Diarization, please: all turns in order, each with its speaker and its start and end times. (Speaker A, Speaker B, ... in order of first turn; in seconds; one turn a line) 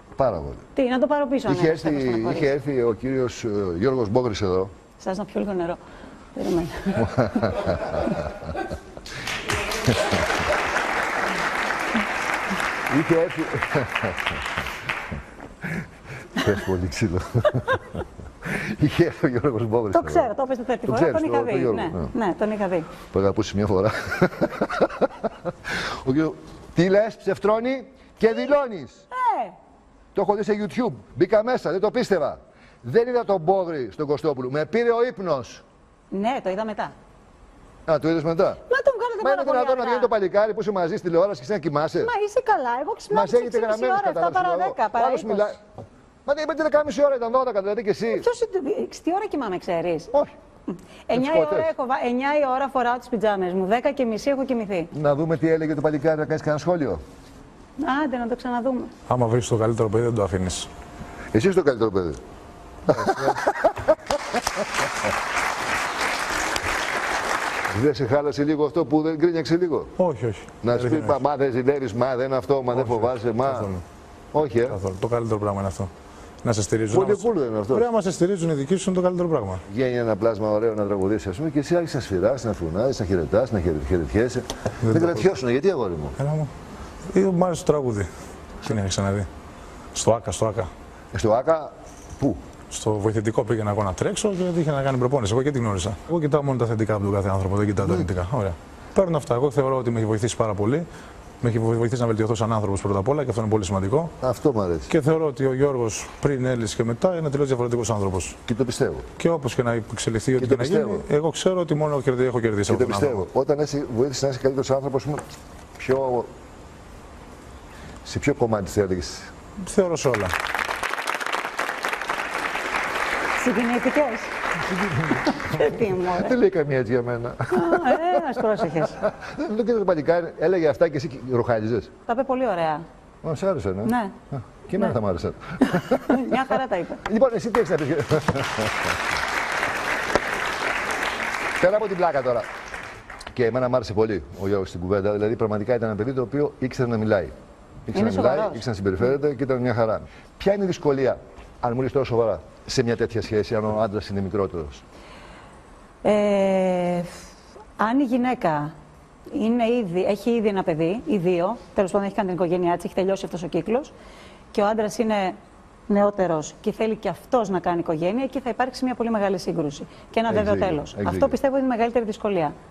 Speaker A: 0.2-0.6
Speaker B: 0.8-2.5
Speaker A: 1.4-4.7
Speaker B: 5.0-5.8
Speaker B: 6.3-8.2
Speaker A: 7.0-8.2
Speaker A: 9.9-10.2
Speaker A: 12.9-14.5
Speaker A: 16.3-20.3
Speaker B: 19.9-22.9
Speaker A: 20.9-22.1
Speaker A: 23.0-29.1
Speaker B: 29.1-29.6
Speaker A: 30.1-35.6
Speaker B: 36.1-36.9
Speaker A: 37.9-38.6
Speaker B: 38.7-40.1
Speaker A: 39.2-42.1
Speaker B: 42.0-45.5
Speaker A: 43.1-45.6
Speaker A: 46.2-48.2
Speaker B: 48.1-50.1
Speaker B: 50.7-54.9
Speaker A: 51.1-51.7
Speaker A: 54.9-57.0
Speaker B: 57.8-58.9
Speaker C: 59.1-60.7
Speaker A: 61.3-62.2
Speaker C: 62.9-63.4
Speaker A: 62.9-64.3
Speaker A: 67.7-69.9
Speaker C: 70.0-71.2
Speaker A: 70.6-73.7
Speaker C: 72.7-73.8
Speaker A: 74.3-74.8
Speaker C: 74.7-75.9
Speaker C: 76.4-79.6
Speaker A: 76.9-77.9
Speaker A: 79.7-86.2
Speaker C: 84.8-85.2
Speaker C: 86.2-86.5
Speaker C: 87.1-88.1
Speaker C: 88.6-89.3
Speaker C: 89.9-90.7
Speaker A: 91.1-92.4
Speaker C: 92.7-100.8
Speaker C: 101.4-104.1
Speaker A: 104.2-104.9
Speaker C: 104.9-108.4
Speaker A: 108.5-109.0
Speaker C: 109.2-113.2
Speaker A: 110.4-111.0
Speaker A: 112.7-115.2
Speaker A: 115.8-116.3
Speaker A: 118.0-119.3
Speaker C: 119.6-120.3
Speaker B: 123.3-124.4
Speaker A: 124.7-131.9
Speaker B: 125.1-126.4
Speaker B: 127.5-129.0
Speaker B: 132.1-132.8
Speaker A: 133.2-136.5
Speaker B: 133.8-134.2
Speaker B: 135.6-137.0
Speaker A: 137.0-139.0
Speaker A: 141.6-142.4
Speaker A: 143.3-147.3
Speaker A: 147.9-154.8
Speaker B: 147.9-148.6
Speaker B: 156.0-157.2
Speaker B: 157.8-158.7
Speaker B: 159.3-163.9
Speaker B: 164.5-165.4
Speaker B: 165.9-172.5
Speaker A: 170.3-171.4